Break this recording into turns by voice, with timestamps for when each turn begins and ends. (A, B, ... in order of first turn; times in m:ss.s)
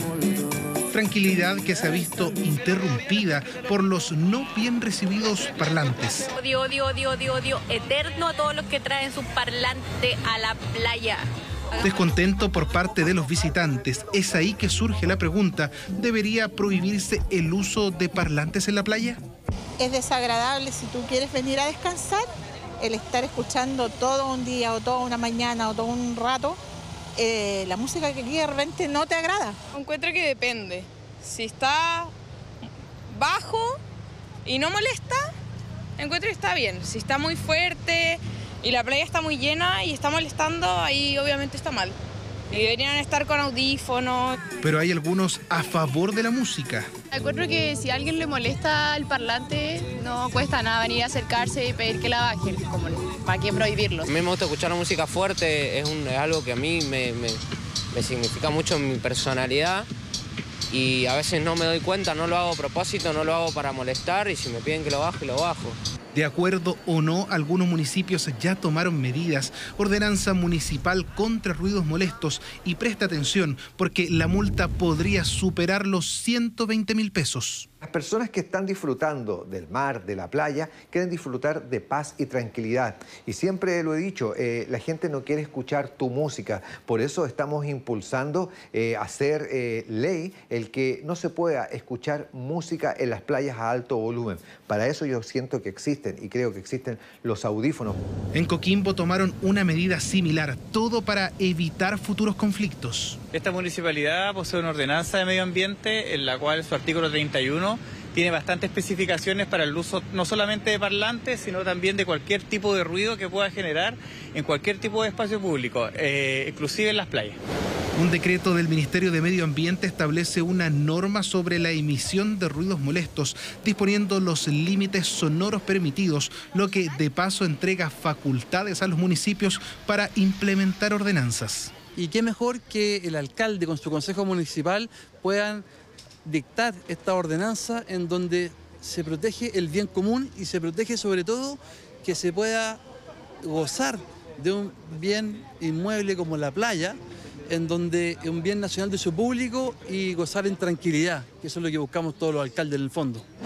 0:00.9-0:06.3 A
0:06.4-0:12.0 B
0:11.8-0:19.2 A
0:19.8-0:22.2 C
0:22.8-0:26.6 C
0:27.2-0:29.6 C
0:29.7-0:32.1 D
0:33.1-0:33.8 D
0:34.4-0:35.2 D
0:36.0-0:42.0 D
0:42.5-0:44.4 D
0:44.6-0:46.9 A
0:47.1-0:54.1 E
0:54.0-0:57.4 F
0:57.9-0:59.9 F
1:00.7-1:05.8 F
1:06.1-1:17.7 A
1:17.8-1:38.0 G
1:38.3-1:43.2 A
1:43.3-1:57.4 H
1:58.0-2:11.7 A
2:12.0-2:15.6 I
2:16.2-2:22.8 I
2:23.4-2:27.0 I
2:27.5-2:33.2 I